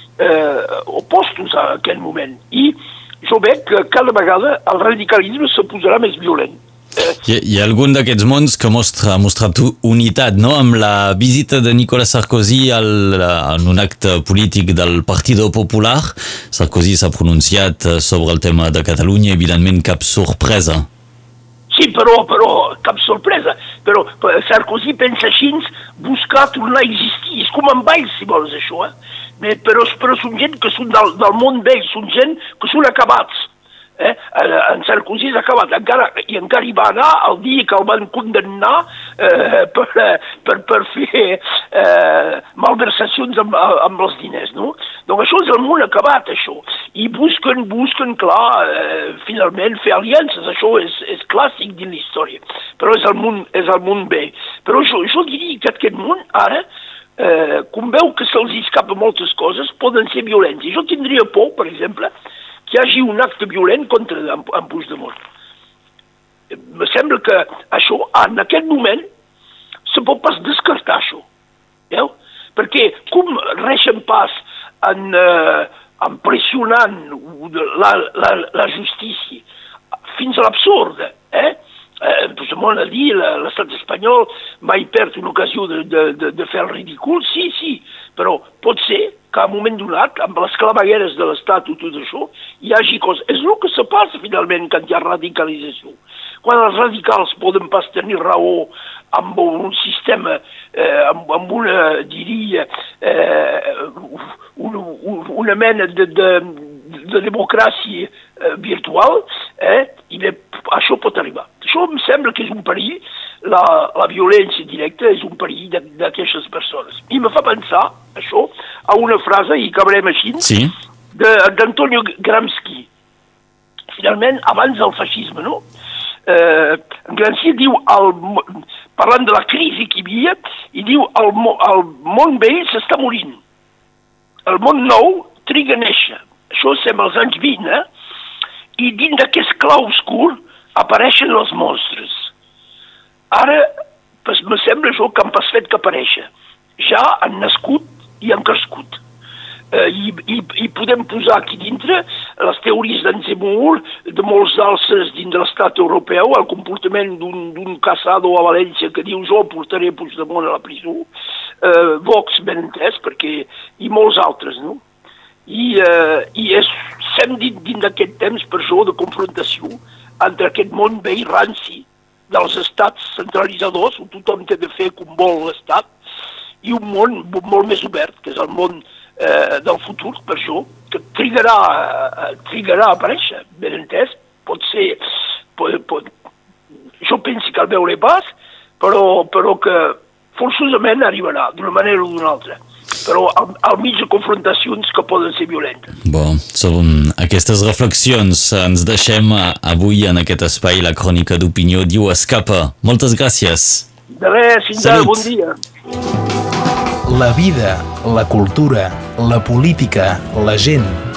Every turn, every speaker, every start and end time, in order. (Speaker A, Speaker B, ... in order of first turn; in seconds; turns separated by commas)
Speaker A: 0.2-7.2, Speaker B: 7.2-20.9, Speaker A: 21.7-56.6, Speaker A: 57.2-62.1, Speaker A: 62.6-65.2, Speaker A: 66.5-69.0, Speaker A: 69.8-71.3, Speaker A: 71.9-79.4, Speaker A: 80.1-120.5, Speaker B: 120.4-120.7, Speaker A: 121.1-122.9, Speaker A: 123.9-125.6, Speaker A: 126.2-133.4, Speaker A: 134.4-137.8, Speaker A: 138.8-142.2, Speaker A: 143.3-143.7, Speaker A: 144.2-149.0, Speaker A: 149.7-161.1, Speaker A: 161.6-164.8, Speaker A: 165.4-175.9, Speaker A: 176.6-185.0, Speaker A: 185.6-186.1, Speaker A: 187.0-195.9, Speaker B: 196.1-203.8, Speaker A: 204.1-205.6, Speaker B: 204.8-205.2, Speaker C: 207.1-211.0